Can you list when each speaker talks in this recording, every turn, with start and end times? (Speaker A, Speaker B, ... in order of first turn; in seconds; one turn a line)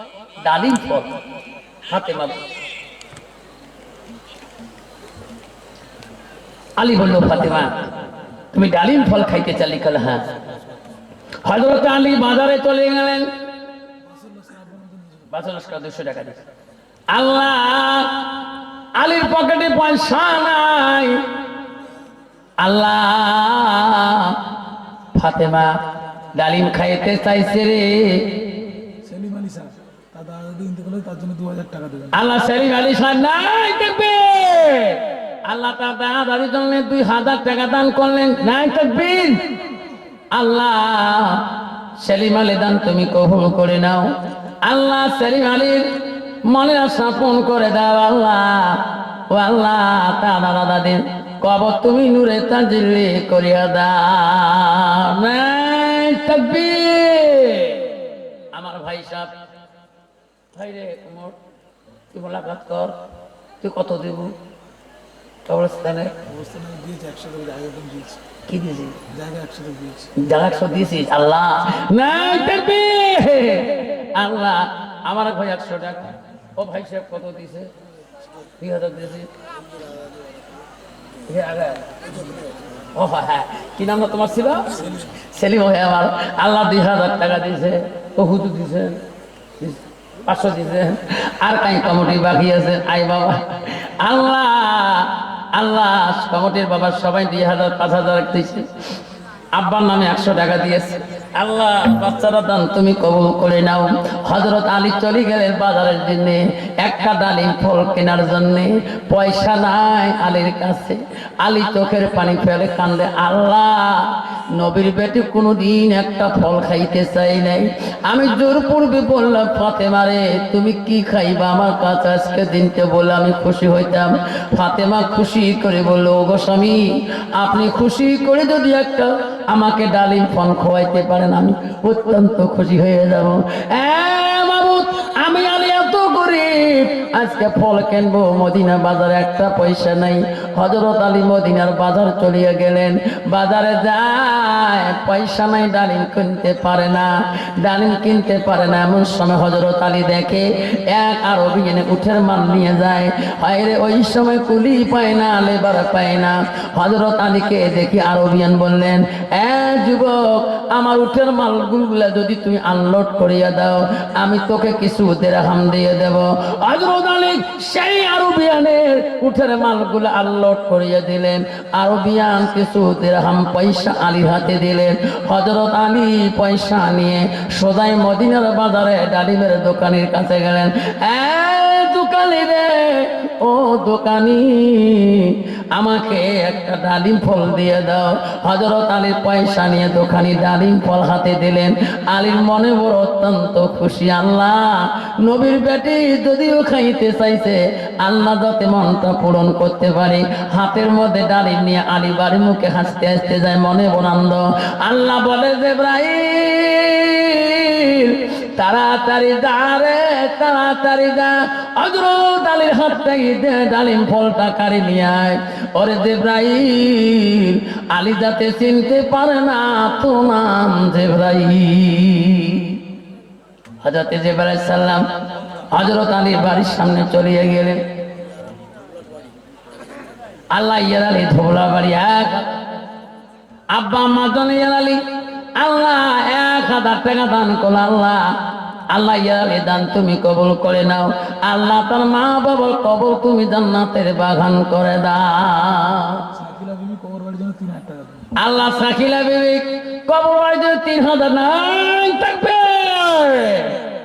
Speaker A: 0.4-1.1
Speaker A: 1.9-2.4
Speaker A: 6.8-7.8
Speaker A: 8.5-10.4
Speaker A: 11.4-13.3
Speaker B: 14.1-15.3
Speaker A: 15.3-16.4
Speaker A: 17.1-18.2
Speaker A: 18.9-21.2
Speaker A: 22.6-24.4
Speaker A: 25.1-25.7
Speaker A: 26.3-28.3
Speaker B: 29.0-32.1
Speaker A: 32.1-39.4
Speaker A: 40.3-44.1
Speaker A: 44.6-57.9
Speaker A: 58.5-59.3
Speaker A: 60.5-61.4
Speaker A: 62.1-63.0
Speaker A: 63.6-64.3
Speaker A: 65.5-66.2
Speaker B: 66.2-68.2
Speaker A: 68.5-69.0
Speaker B: 69.1-70.1
Speaker A: 70.2-77.7
Speaker A: 78.6-79.3
Speaker A: 81.3-82.1
Speaker A: 82.9-89.0
Speaker A: 89.6-98.7
Speaker A: 99.5-222.8
Speaker A: 223.8-227.8
Speaker A: 230.5-232.6
Speaker A: 233.7-235.0
Speaker A: 235.6-238.3
Speaker A: 238.9-246.2
Speaker B: 246.3-248.3
Speaker A: 248.3-253.8